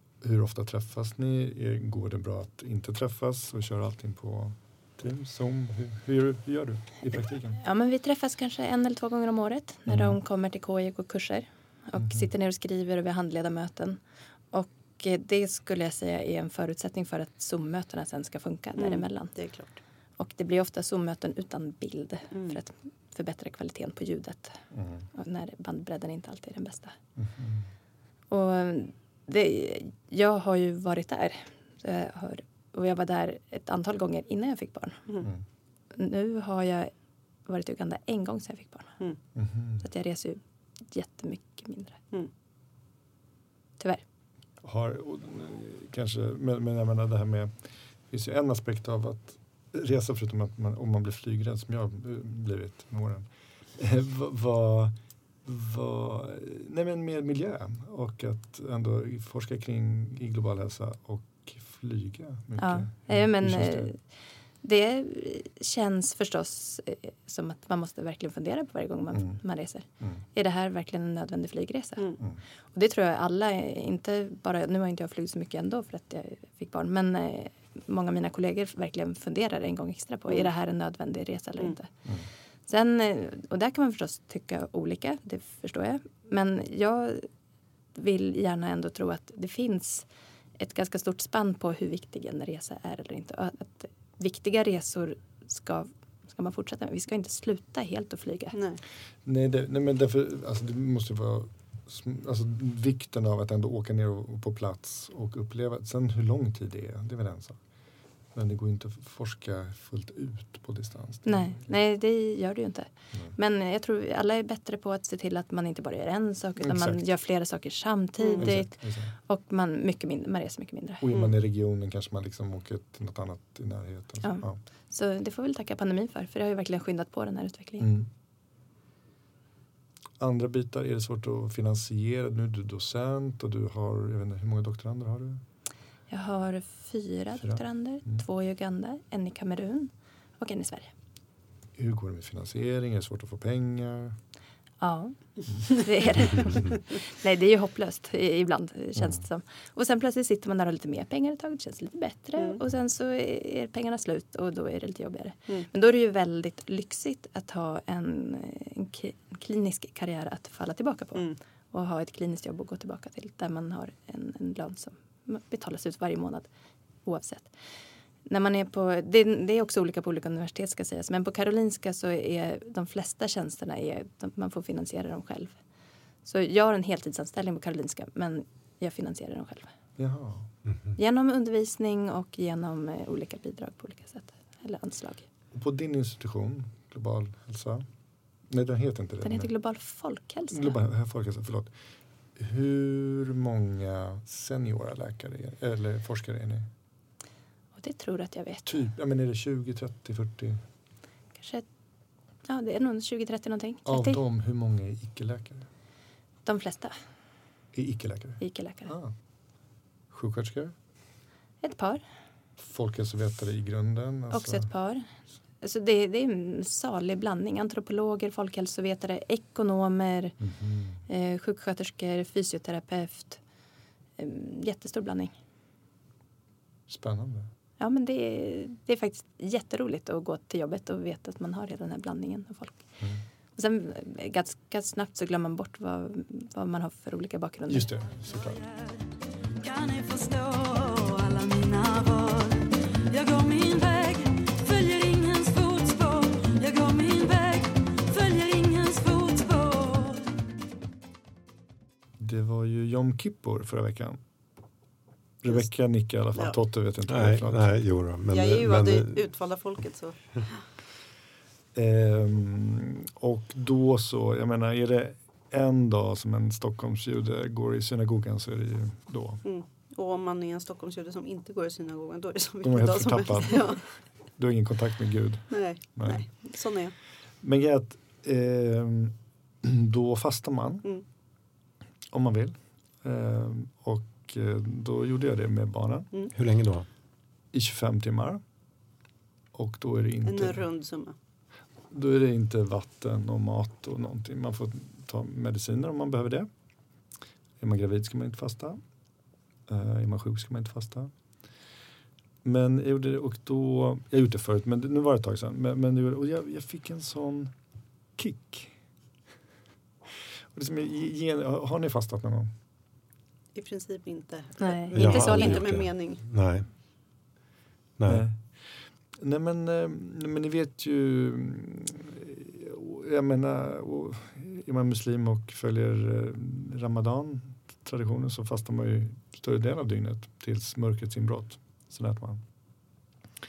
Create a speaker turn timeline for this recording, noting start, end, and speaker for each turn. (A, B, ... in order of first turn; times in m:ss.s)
0:00.2-0:07.6 A
0:07.6-0:14.0 B
0:09.9-0:10.2 A
0:12.0-0:12.3 A
0:14.5-0:19.3 B
0:18.8-0:19.8 C
0:20.2-0:24.6 B
0:22.3-0:22.6 C
0:24.7-0:25.0 A
0:25.1-0:27.0 B
0:27.2-0:27.6 A
0:28.3-0:35.0 B
0:35.9-0:36.9 B
0:37.5-0:39.0 B
0:39.3-0:39.8 A
0:39.8-0:40.4 B
0:40.9-0:42.0 B
0:44.6-0:47.5 A
0:48.1-0:53.2 A
0:53.8-1:03.9 A
1:02.6-1:04.0 B
1:04.6-1:12.1 B
1:12.7-1:21.9 B
1:22.7-1:27.3 B
1:27.9-1:30.0 B
1:30.6-1:38.6 B
1:38.5-1:38.8 C
1:39.2-1:47.6 A
1:48.3-1:51.7 A
1:51.2-2:01.1 B
1:56.6-1:57.1 A
1:58.2-1:58.5 C
1:58.4-1:59.1 A
2:01.0-2:04.6 A
2:04.2-2:07.9 B
2:07.8-2:08.1 A
2:10.2-2:15.4 A
2:16.1-2:20.9 B
2:17.4-2:18.2 A
2:21.8-2:24.2 A
2:24.8-2:46.5 B
2:26.2-2:26.6 A
2:47.0-2:47.5 B
2:48.3-2:55.5 B
2:56.2-2:59.7 B
3:00.0-3:00.5 A
3:01.0-3:05.2 B
3:05.5-3:07.8 A
3:08.5-3:09.5 A
3:09.2-3:10.8 B
3:10.5-3:11.7 A
3:12.4-3:16.7 A
3:17.8-3:18.7 B
3:18.6-3:20.6 A
3:21.4-3:21.6 B
3:22.4-3:24.2 B
3:23.8-3:25.7 A
3:26.4-3:26.9 B
3:27.7-3:29.1 A
3:28.4-3:28.9 B
3:30.1-3:30.7 A
3:31.6-3:32.0 B
3:32.6-3:34.7 A
3:34.3-3:35.1 B
3:35.6-3:40.4 B
3:40.4-3:41.0 A
3:41.1-3:43.4 B
3:44.2-3:45.3 B
3:46.9-3:47.5 A
3:47.8-3:52.8 B
3:53.6-3:57.9 B
3:57.7-3:58.6 A
3:58.4-3:58.9 D
3:59.6-4:10.2 D
4:12.2-4:14.2 A
4:15.4-4:17.7 A
4:17.1-4:19.3 E
4:18.3-4:20.6 C
4:21.7-4:29.4 A
4:29.4-4:33.8 C
4:32.6-4:33.8 A
4:34.4-4:36.3 A
4:35.5-4:36.9 C
4:37.4-4:40.9 A
4:42.1-4:46.1 A
4:46.3-4:46.8 E
4:47.5-4:48.4 A
4:49.5-4:50.7 A
4:50.2-4:51.1 C
4:51.9-4:56.5 A
4:57.6-4:58.8 A
4:59.7-5:01.1 A
5:02.4-5:07.5 A
5:08.2-5:08.7 A
5:10.5-5:12.5 A
5:13.5-5:16.2 C
5:14.6-5:15.7 B
5:14.9-5:16.7 E
5:18.0-5:18.2 E
5:18.0-5:18.4 A
5:19.2-5:32.4 A